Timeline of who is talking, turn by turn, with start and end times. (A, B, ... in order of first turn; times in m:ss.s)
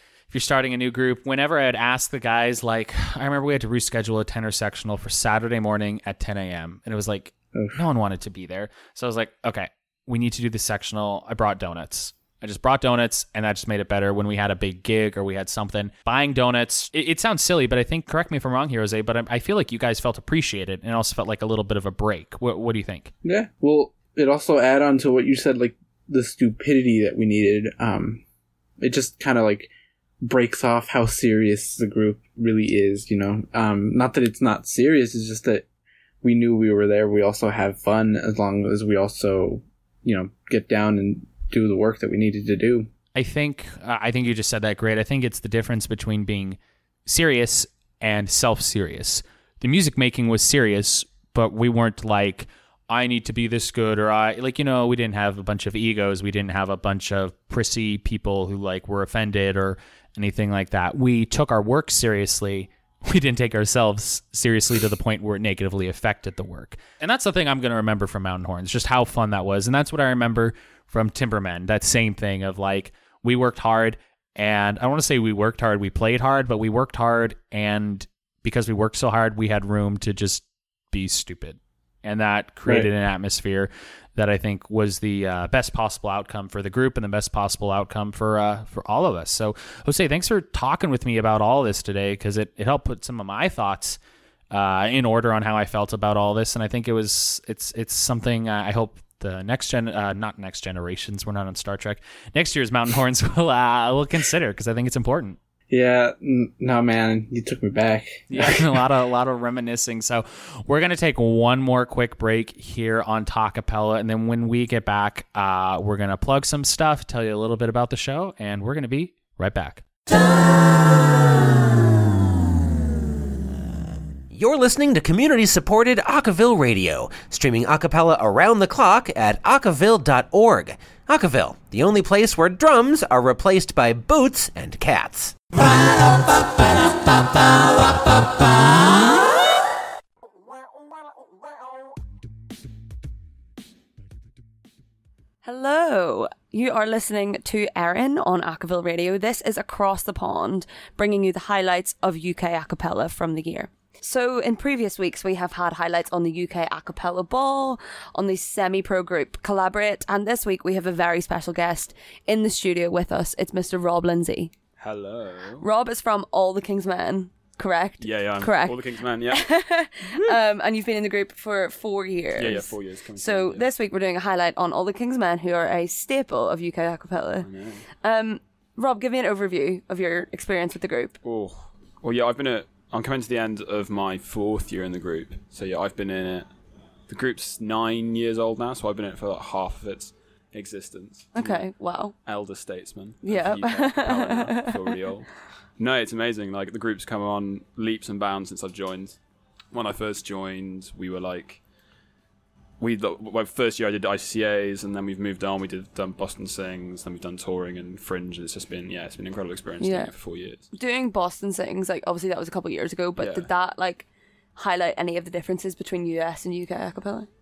0:00.3-0:23.1 A
0:23.2-0:28.2 B
0:28.8-0:29.7 B
0:30.2-0:35.6 B
0:36.2-0:42.9 B
0:43.1-1:34.0 A
1:34.5-1:45.4 A
1:45.7-1:48.7 B
1:48.3-1:59.8 A
2:04.3-2:15.4 C
2:25.4-2:44.5 D
2:44.8-2:45.6 E
2:45.6-2:57.5 D
2:48.0-2:49.4 E
2:50.1-2:50.4 E
2:52.4-2:53.7 E
2:57.4-2:57.8 E
2:58.0-3:01.1 D
3:01.2-3:06.5 E
3:07.1-3:11.7 E
3:11.3-3:12.2 D
3:12.2-3:19.2 E
3:13.2-3:15.0 D
3:19.7-3:21.6 E
3:22.8-3:30.7 E
3:29.8-3:30.1 D
3:30.7-3:37.3 D
3:33.2-3:33.5 E